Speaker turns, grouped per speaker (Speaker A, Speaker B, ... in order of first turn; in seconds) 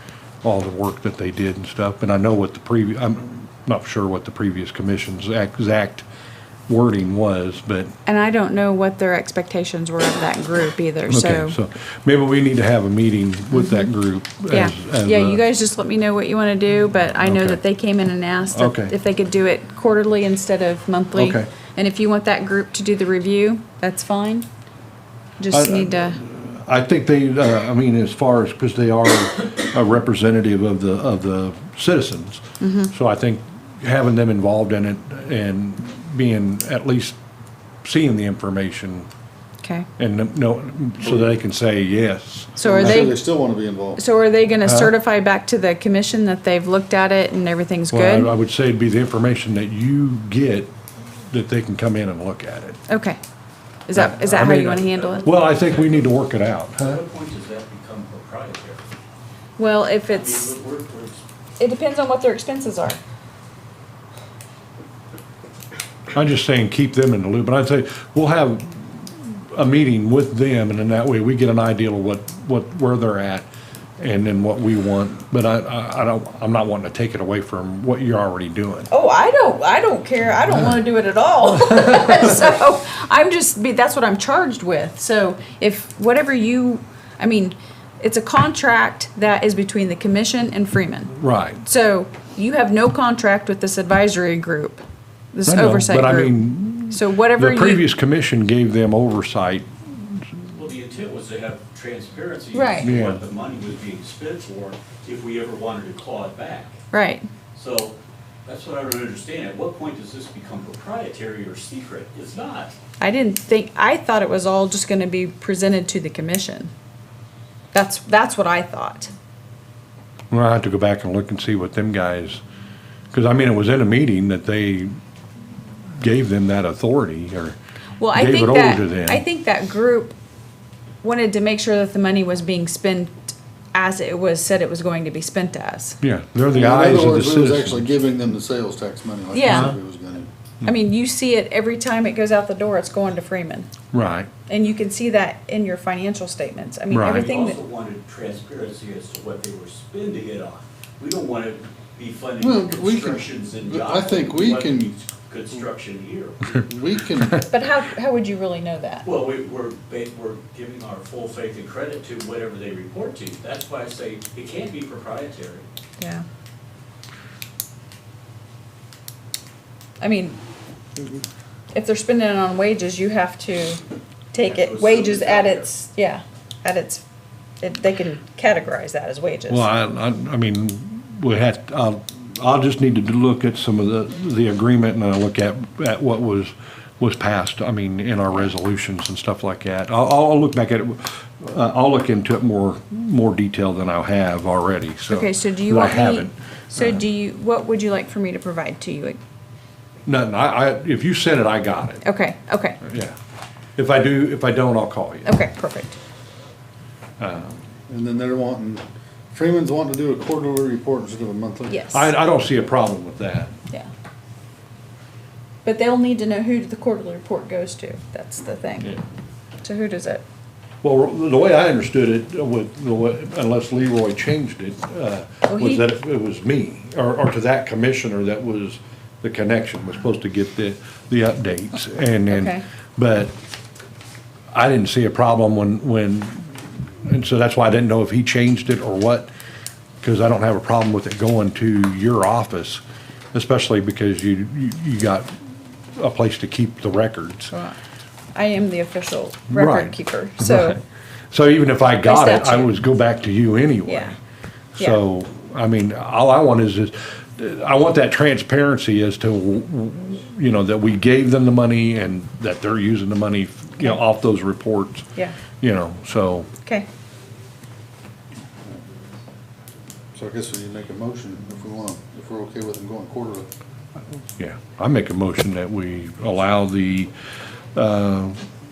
Speaker A: 0.4-6.0, 6.7-7.9, 11.1-15.4, 17.2-17.6, 18.5-18.9, 21.1-21.5, 25.5-37.1, 37.8-39.1, 40.0-43.0, 44.6-44.9, 47.9-50.7, 51.3-52.8, 53.9-57.0, 66.1-78.9, 91.2-91.6, 95.5-100.2, 102.8-103.2, 120.3-122.4, 123.1-124.9, 126.0-127.6, 128.1-129.2, 136.0-137.8, 139.4-139.7, 143.9-144.3, 146.9-147.3, 179.5-197.0, 200.1-202.0, 202.8-203.1, 203.8-205.4, 207.2-207.6, 211.9-213.5, 220.8-233.3, 234.5-239.3, 240.0-242.8, 243.3-245.3, 245.9-247.5, 249.5-254.2, 254.8-265.1, 265.6-266.5, 274.4-277.1, 277.7-278.4
Speaker B: 8.1-11.6, 13.5-13.9, 14.5-24.5, 25.4-26.2, 32.6-32.9, 39.6-39.9, 42.6-43.2, 44.0-48.3, 52.9-53.2, 53.9-55.3, 59.6-60.5, 61.6-63.0, 78.9-97.9, 102.5-102.9, 106.9-107.3, 113.0-116.7, 117.7-119.1, 128.0-130.1, 131.0-136.0, 139.3-139.7, 140.6-143.7, 144.5-147.6, 157.5-159.1, 166.0-166.2, 170.0-170.4, 171.7-177.0, 177.6-179.7, 195.1-199.2, 202.0-202.8, 205.2-206.0, 211.7-212.1, 215.6-218.9, 219.6-220.2, 225.4-225.8, 232.3-232.6, 247.5-247.8, 248.3-250.8, 252.0-252.7, 253.8-254.1
Speaker C: 42.6-44.0, 136.5-140.3, 152.4-154.9, 156.7-157.5, 207.9-211.8, 270.1-273.5
Speaker D: 54.4-56.1, 56.8-58.8, 60.1-61.2, 100.5-106.8, 107.5-107.9, 108.5-112.7, 147.0-156.7, 159.0-165.7, 174.4-175.7